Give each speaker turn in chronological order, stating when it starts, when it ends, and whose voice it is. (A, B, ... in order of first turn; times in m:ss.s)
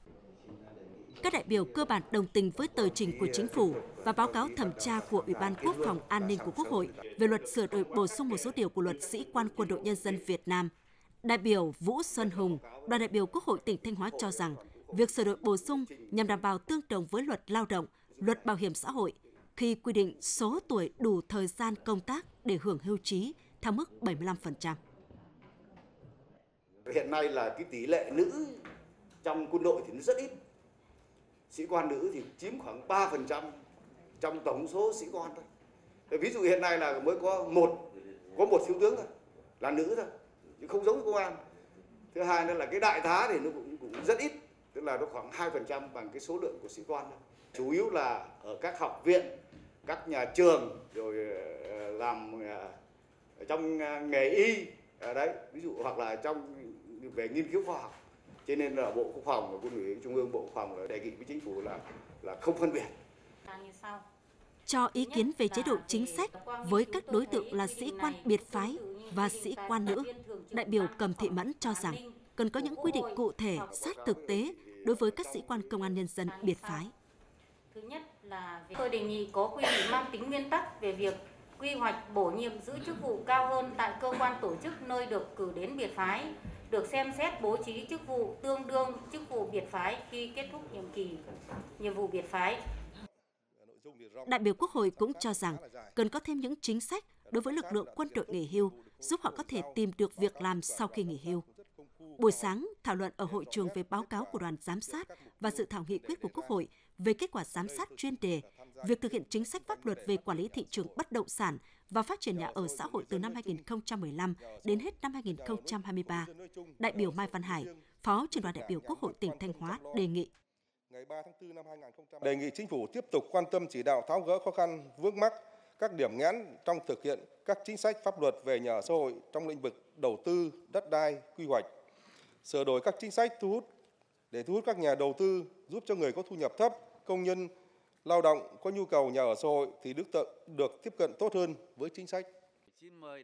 0:01.2-0:10.7 A
0:02.7-0:10.2 B
0:11.2-0:24.8 A
0:12.1-0:16.5 B
0:18.1-0:18.6 B
0:26.9-0:28.6 B
0:29.2-0:30.4 B
0:31.5-0:33.5 B
0:34.2-0:35.4 B
0:36.1-0:39.1 B
0:39.6-0:41.4 B
0:42.1-0:52.8 B
0:53.4-1:02.9 B
1:03.5-1:04.1 C
1:04.7-1:16.9 A
1:04.9-1:13.7 C
1:13.5-1:16.0 B
1:16.2-1:16.8 C
1:17.7-1:31.2 C
1:31.8-1:32.6 C
1:33.6-1:36.0 D
1:34.3-1:41.4 A
1:37.2-1:42.6 D
1:42.2-1:56.3 A
1:43.2-1:46.6 D
1:47.5-1:51.0 D
1:52.3-1:53.7 D
1:54.4-2:00.1 D
1:56.8-2:00.3 A
2:00.9-2:11.7 D
2:12.4-2:13.7 D
2:14.3-2:17.5 D
2:18.0-2:22.3 D